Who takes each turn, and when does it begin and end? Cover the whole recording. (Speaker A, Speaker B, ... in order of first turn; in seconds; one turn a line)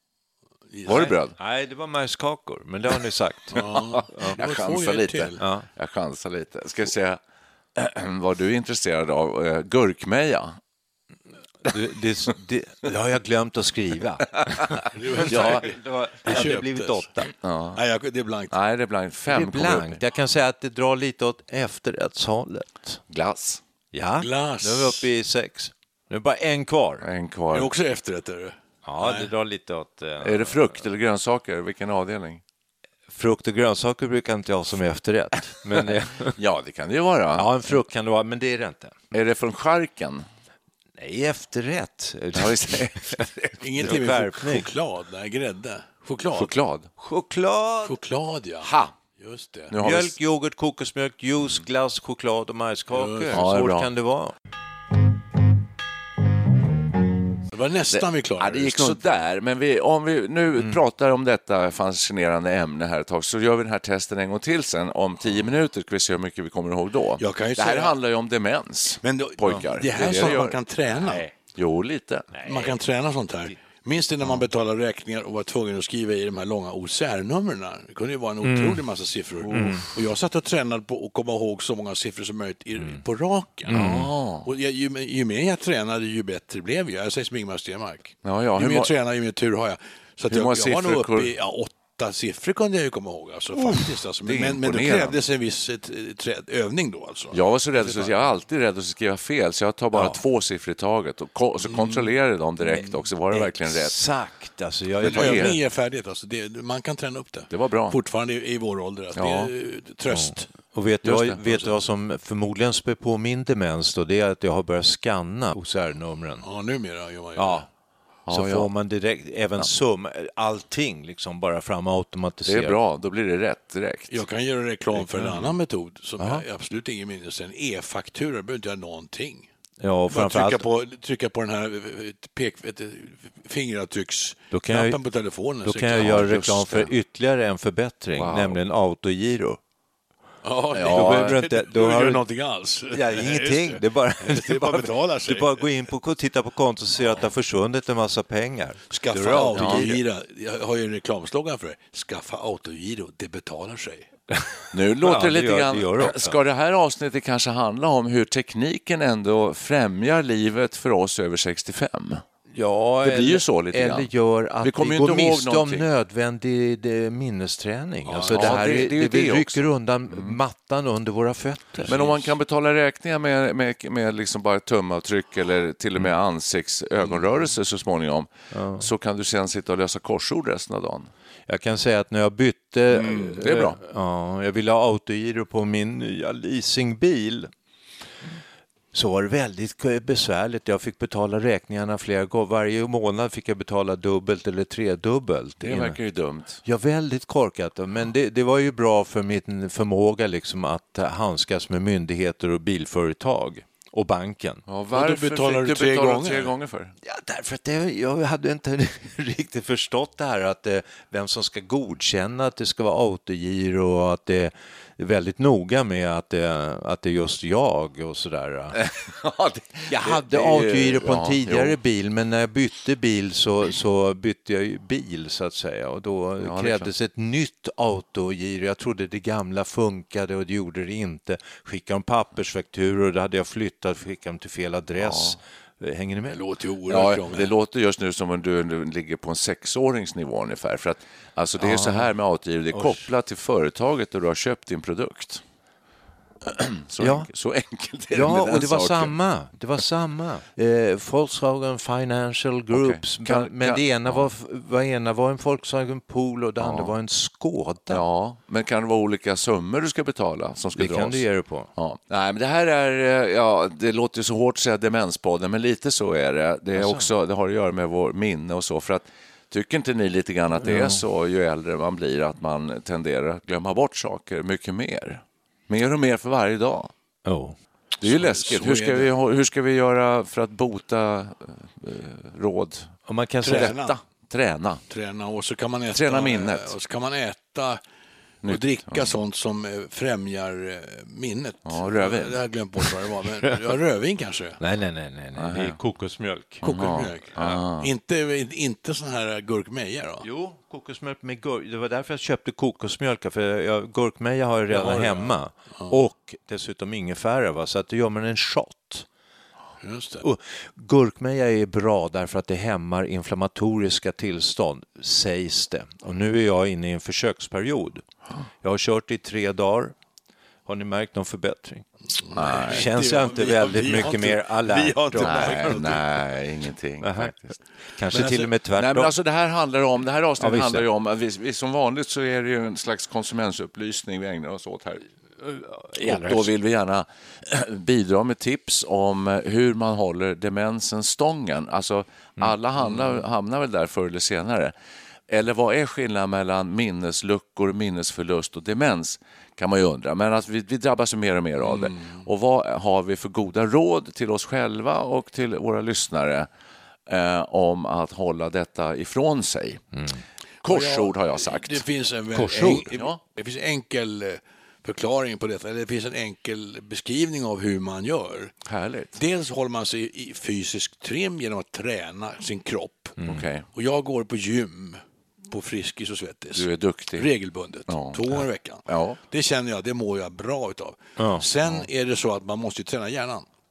Speaker A: 0.7-1.1
Speaker B: 0.9-1.4
Speaker C: 0.9-4.4
Speaker A: 3.5-5.4
Speaker B: 4.4-7.2
Speaker C: 5.4-5.7
Speaker B: 7.8-10.6
Speaker C: 11.7-17.3
Speaker B: 14.4-15.7
Speaker A: 14.9-18.6
Speaker B: 17.4-17.8
Speaker B: 18.5-20.0
Speaker C: 19.3-23.0
Speaker B: 23.1-23.6
Speaker C: 23.9-27.0
Speaker A: 24.2-25.1
Speaker B: 27.0-27.7
Speaker A: 27.5-29.3
Speaker C: 28.8-30.6
Speaker B: 30.2-32.4
Speaker C: 33.1-36.4
Speaker B: 36.4-37.5
Speaker C: 37.4-39.0
Speaker B: 39.1-40.2
Speaker C: 41.0-43.3
Speaker B: 42.4-43.9
Speaker A: 43.6-46.5
Speaker C: 43.8-44.7
Speaker B: 46.4-46.9
Speaker C: 47.0-48.0
Speaker A: 47.8-49.7
Speaker B: 48.6-48.9
Speaker B: 49.7-50.1
Speaker C: 49.8-54.3
Speaker A: 52.9-53.4
Speaker B: 53.3-53.9
Speaker A: 57.5-59.0
Speaker B: 57.9-72.7
Speaker A: 67.2-67.9
Speaker A: 69.0-71.3
Speaker A: 72.4-98.2
Speaker C: 78.4-78.8
Speaker C: 79.5-79.9
Speaker C: 83.7-84.1
Speaker B: 83.7-84.5
Speaker B: 88.2-88.9
Speaker B: 90.3-91.3
Speaker B: 94.2-95.2
Speaker B: 97.3-104.0
Speaker A: 101.6-102.1
Speaker C: 102.7-105.6
Speaker A: 105.0-110.5
Speaker B: 105.1-105.6
Speaker B: 107.5-108.0
Speaker B: 109.2-109.5
Speaker C: 110.1-116.5
Speaker B: 111.0-111.7
Speaker A: 116.4-117.7
Speaker C: 117.4-117.7
Speaker B: 118.3-118.7
Speaker C: 118.3-122.8
Speaker B: 122.5-124.2
Speaker A: 124.1-129.5
Speaker C: 125.0-125.5
Speaker C: 126.2-126.5
Speaker C: 129.8-130.6
Speaker A: 130.1-136.4
Speaker C: 134.5-135.0
Speaker C: 135.6-139.6
Speaker B: 136.0-136.9
Speaker B: 138.2-138.6
Speaker A: 140.4-145.7
Speaker B: 140.7-141.4
Speaker C: 140.9-142.2
Speaker C: 142.9-150.0
Speaker A: 147.0-147.3
Speaker A: 148.9-154.1
Speaker B: 149.5-150.0
Speaker C: 154.3-156.4
Speaker B: 154.7-162.2
Speaker C: 162.5-172.3
Speaker B: 163.0-164.1
Speaker B: 164.6-165.9
Speaker A: 168.1-168.7
Speaker B: 168.3-170.4
Speaker B: 171.9-181.1
Speaker C: 178.5-178.9
Speaker C: 181.5-187.5
Speaker B: 182.9-183.8
Speaker C: 188.9-196.0
Speaker B: 195.6-196.6
Speaker C: 196.7-204.7
Speaker B: 204.7-206.9
Speaker A: 204.9-206.5
Speaker C: 207.1-218.8
Speaker B: 218.8-221.8
Speaker C: 219.9-236.4
Speaker B: 226.4-226.9
Speaker B: 235.0-235.4
Speaker A: 236.3-237.5
Speaker B: 236.9-245.4
Speaker C: 241.6-242.1
Speaker C: 242.7-243.1
Speaker B: 246.5-249.1
Speaker C: 247.0-247.3
Speaker C: 248.1-258.0
Speaker B: 252.7-254.3
Speaker B: 256.6-256.9
Speaker B: 257.9-261.2
Speaker C: 260.8-261.7
Speaker B: 261.8-276.9
Speaker C: 266.8-267.1
Speaker C: 270.6-271.0
Speaker C: 277.2-277.6
Speaker B: 278.0-282.9
Speaker A: 278.0-279.1
Speaker C: 283.1-283.8
Speaker A: 283.4-284.0
Speaker B: 283.5-284.8
Speaker A: 284.9-287.8
Speaker B: 285.9-286.8
Speaker B: 288.4-289.1
Speaker A: 288.4-294.6
Speaker B: 291.7-292.4
Speaker C: 294.6-296.6
Speaker B: 295.4-295.8
Speaker A: 296.6-300.3
Speaker B: 296.6-297.9
Speaker C: 300.2-309.1
Speaker A: 304.7-305.9
Speaker A: 309.8-310.3
Speaker C: 310.2-318.1
Speaker C: 318.6-319.9
Speaker C: 320.7-321.9
Speaker A: 322.2-326.1
Speaker B: 322.4-322.9
Speaker C: 322.7-325.8
Speaker B: 325.2-327.5
Speaker C: 327.0-327.4
Speaker C: 327.9-329.1
Speaker A: 328.1-328.5
Speaker B: 328.8-335.0
Speaker C: 330.4-330.9
Speaker C: 335.4-336.5
Speaker B: 336.0-344.7
Speaker B: 345.3-356.5
Speaker A: 351.6-352.2
Speaker B: 357.1-359.8
Speaker B: 360.6-361.9
Speaker A: 360.6-368.5
Speaker C: 362.3-362.9
Speaker B: 362.6-363.2
Speaker B: 368.7-369.1
Speaker A: 369.2-373.1
Speaker B: 373.2-373.7
Speaker A: 373.8-383.5
Speaker B: 376.6-377.3
Speaker B: 377.9-378.3
Speaker B: 378.9-379.2
Speaker C: 381.2-381.4